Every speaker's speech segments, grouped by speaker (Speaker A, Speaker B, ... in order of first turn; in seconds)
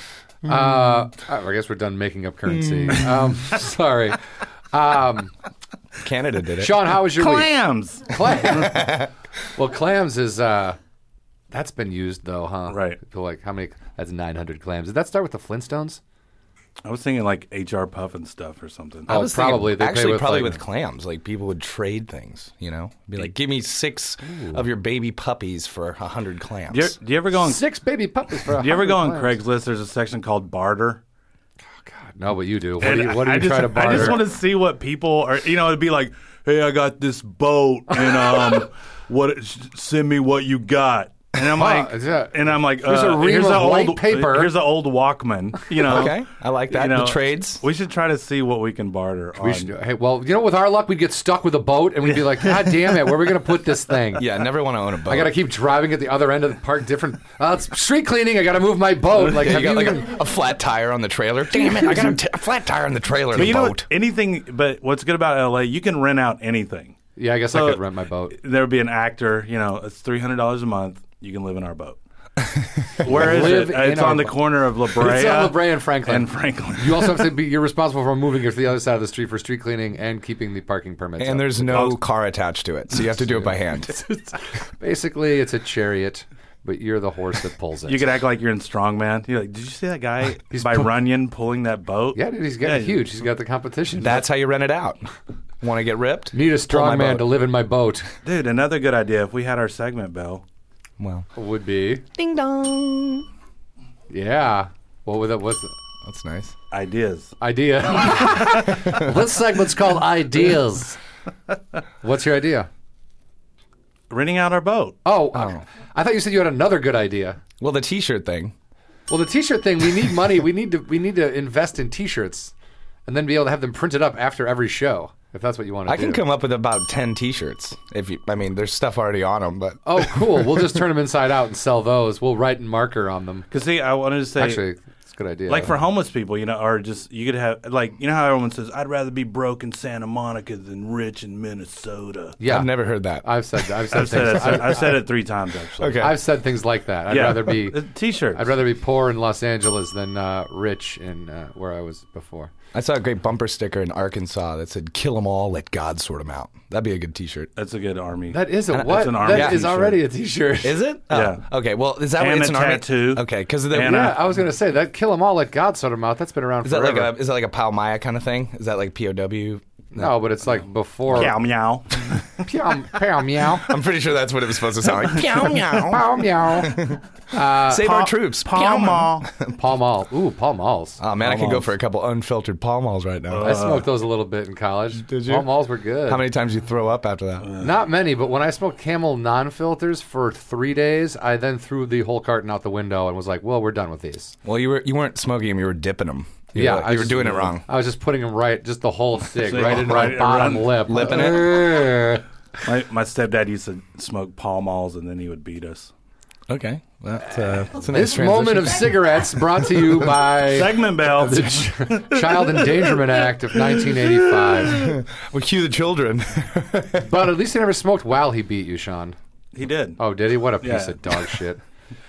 Speaker A: 0.5-4.2, 4.7-5.3, 6.6-9.0, 9.6-10.8, 11.5-16.0, 19.1-20.6, 24.2-24.6, 27.4-29.4, 31.9-34.3, 38.1-38.7, 41.4-44.5, 49.4-54.2, 55.1-60.1, 67.2-68.4, 73.0-74.4, 75.0-81.9, 83.4-88.0, 90.5-90.9, 92.2-94.2, 96.3-98.1, 101.3-102.0, 104.1-105.7, 107.4-111.0, 112.0-112.7, 115.0-117.4, 119.1-122.5, 123.1-126.2, 129.8-133.5, 134.4-135.7, 142.4-145.0, 146.0-152.5, 158.3-160.8, 163.8-167.1, 169.9-171.4, 172.4-173.7, 175.8-178.0, 179.5-181.0, 183.4-186.2, 187.6-194.3, 196.5-202.2, 207.8-214.9, 217.0-219.2, 220.0-221.6
Speaker B: 2.8-3.3, 6.0-6.9, 8.5-9.1, 19.1-26.9, 45.8-47.6, 54.1-55.4, 59.2-63.9, 72.6-72.9, 81.2-84.0, 94.0-95.1, 95.6-97.3, 101.0-101.3, 102.2-103.3, 106.0-106.5, 115.3-115.6, 117.6-118.5, 125.9-130.6, 142.4-144.0, 145.8-146.2, 152.7-157.5, 158.7-159.7, 160.6-164.1, 166.6-170.1, 173.4-179.6, 181.0-183.6, 185.1-185.5, 186.1-187.5, 194.4-197.7, 199.9-201.6, 206.5-209.0, 214.7-217.1
Speaker C: 7.2-8.1, 12.7-13.0, 16.9-19.1, 26.7-27.6, 28.5-31.0, 32.8-46.2, 46.7-49.7, 52.5-52.8, 63.3-67.0, 67.5-72.0, 73.0-77.3, 81.7-82.0, 87.9-93.1, 98.2-100.4, 106.7-107.3, 114.1-115.0, 133.5-134.6, 135.5-142.4, 143.9-146.2, 147.1-148.5, 157.6-160.0, 161.1-161.4, 162.2-164.2, 171.1-172.3, 177.8-179.3, 181.2-181.7, 183.3-183.9, 199.4-201.0, 202.6-205.9, 210.5-212.9, 213.8-214.8, 219.5-220.0, 220.6-221.3